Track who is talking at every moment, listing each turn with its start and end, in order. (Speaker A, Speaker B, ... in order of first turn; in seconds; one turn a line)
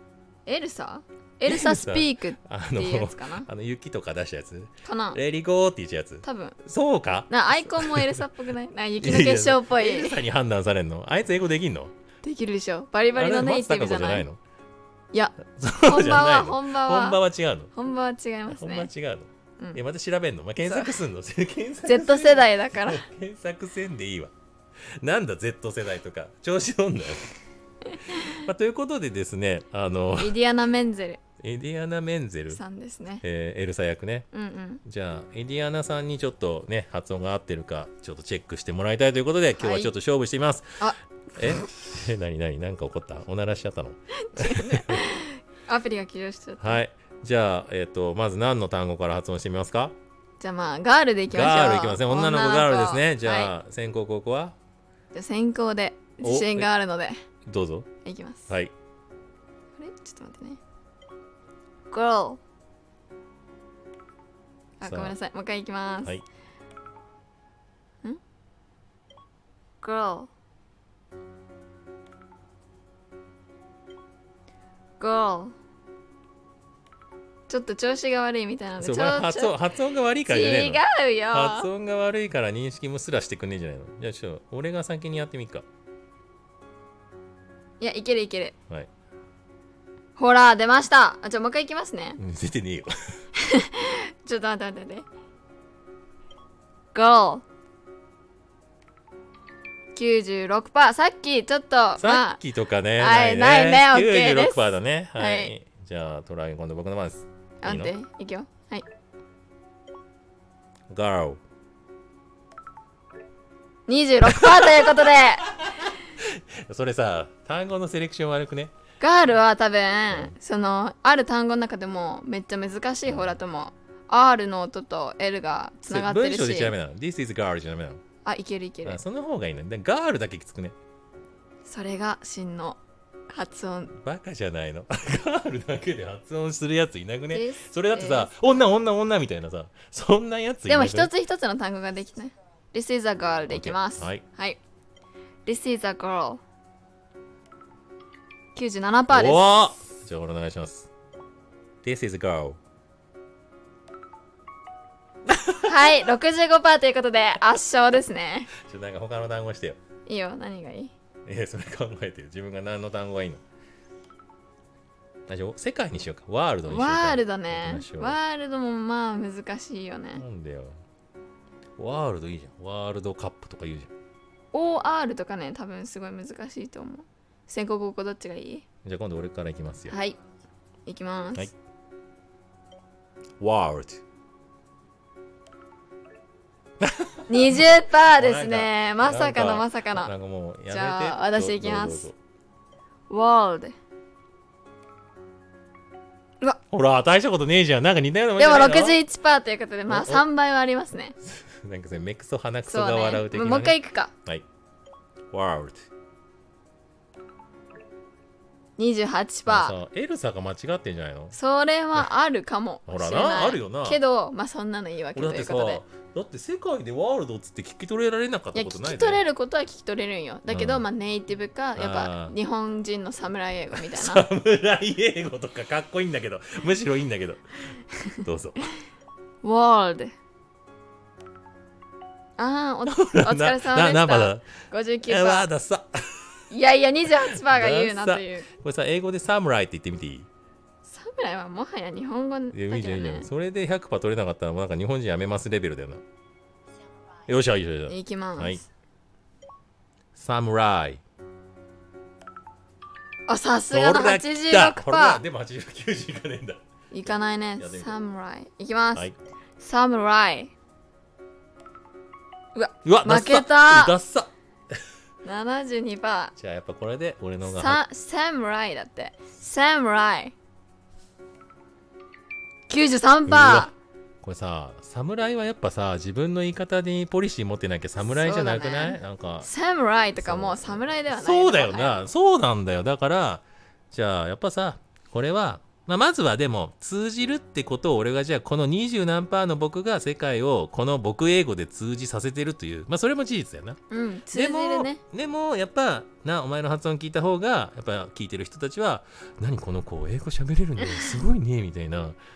Speaker A: 0.5-3.5
Speaker B: 1.4-8.2
Speaker A: 4.8-5.2
Speaker A: 6.2-6.6
Speaker A: 7.3-10.2
Speaker B: 9.0-11.9
Speaker A: 12.2-14.3
Speaker B: 13.2-14.4
Speaker A: 15.1-17.2
Speaker B: 15.5-17.7
Speaker A: 17.7-18.9
Speaker B: 18.5-24.3
Speaker A: 20.7-20.9
Speaker A: 21.9-23.0
Speaker B: 25.0-27.4
Speaker B: 28.1-30.4
Speaker A: 30.2-31.2
Speaker B: 31.4-32.6
Speaker A: 32.5-33.2
Speaker B: 33.2-34.3
Speaker A: 34.3-34.8
Speaker B: 34.9-40.8
Speaker A: 39.6-39.9
Speaker B: 41.4-45.0
Speaker A: 44.2-46.8
Speaker B: 46.6-50.0
Speaker A: 50.4-53.5
Speaker B: 51.3-54.6
Speaker A: 55.1-57.2
Speaker B: 56.2-56.7
Speaker B: 57.5-57.9
Speaker A: 58.0-58.5
Speaker A: 59.8-60.6
Speaker A: 61.9-62.4
Speaker A: 64.8-66.2
Speaker B: 64.8-65.2
Speaker A: 69.8-70.3
Speaker A: 75.0-75.5
Speaker A: 77.5-79.6
Speaker B: 78.8-85.7
Speaker A: 80.3-81.7
Speaker A: 87.8-88.5
Speaker A: 90.2-92.2
Speaker B: 92.2-92.9
Speaker A: 93.4-95.1
Speaker A: 96.9-97.4
Speaker A: 100.0-102.4
Speaker B: 102.0-107.9
Speaker A: 103.0-105.5
Speaker A: 107.6-108.8
Speaker B: 110.9-111.4
Speaker A: 113.9-115.5
Speaker B: 114.2-115.0
Speaker B: 115.6-118.7
Speaker A: 119.0-126.8
Speaker B: 123.1-123.3
Speaker B: 125.9-128.0
Speaker A: 128.2-129.0
Speaker B: 128.8-130.8
Speaker A: 131.7-133.9
Speaker B: 133.9-141.1
Speaker A: 137.3-138.4
Speaker A: 140.7-144.6
Speaker B: 143.5-144.2
Speaker A: 145.4-146.4
Speaker A: 148.6-149.5
Speaker B: 149.1-150.9
Speaker B: 151.8-152.6
Speaker A: 155.6-158.5
Speaker B: 158.5-159.8
Speaker A: 160.1-160.9
Speaker B: 161.3-163.4
Speaker B: 165.3-168.2
Speaker A: 166.7-170.2
Speaker B: 170.2-170.8
Speaker B: 171.8-173.9
Speaker A: 174.5-178.6
Speaker B: 178.8-180.0
Speaker A: 179.9-180.2
Speaker A: 180.9-181.5
Speaker B: 183.4-184.0
Speaker B: 186.8-192.2
Speaker A: 187.3-190.1
Speaker A: 190.7-192.1
Speaker A: 193.1-193.8
Speaker B: 196.7-199.0
Speaker A: 198.4-201.2
Speaker B: 199.9-200.3
Speaker B: 201.2-204.4
Speaker A: 202.7-204.1
Speaker B: 205.3-205.9
Speaker A: 208.8-209.8
Speaker B: 209.5-211.4
Speaker A: 211.3-215.8
Speaker B: 212.9-214.0
Speaker B: 215.1-219.2
Speaker A: 218.6-224.2
Speaker B: 220.5-220.8
Speaker B: 221.8-222.4
Speaker B: 223.7-227.6
Speaker B: 228.2-228.6
Speaker A: 229.4-230.1
Speaker A: 232.4-235.5
Speaker B: 232.9-234.5
Speaker B: 235.0-236.3
Speaker A: 236.5-238.5
Speaker B: 237.3-240.3
Speaker A: 240.8-243.3
Speaker B: 242.5-246.0
Speaker B: 247.3-248.6
Speaker A: 247.9-248.7
Speaker B: 250.2-251.0
Speaker A: 253.3-255.2
Speaker B: 253.7-257.9
Speaker A: 256.9-259.1
Speaker A: 259.6-260.5
Speaker A: 262.6-263.9
Speaker B: 262.9-264.3
Speaker A: 265.2-266.3
Speaker B: 266.4-267.8
Speaker A: 267.5-270.3
Speaker A: 272.7-273.7
Speaker B: 273.3-279.5
Speaker A: 278.0-282.0
Speaker B: 280.2-293.8
Speaker A: 293.9-295.0
Speaker B: 294.3-302.2
Speaker A: 300.8-301.2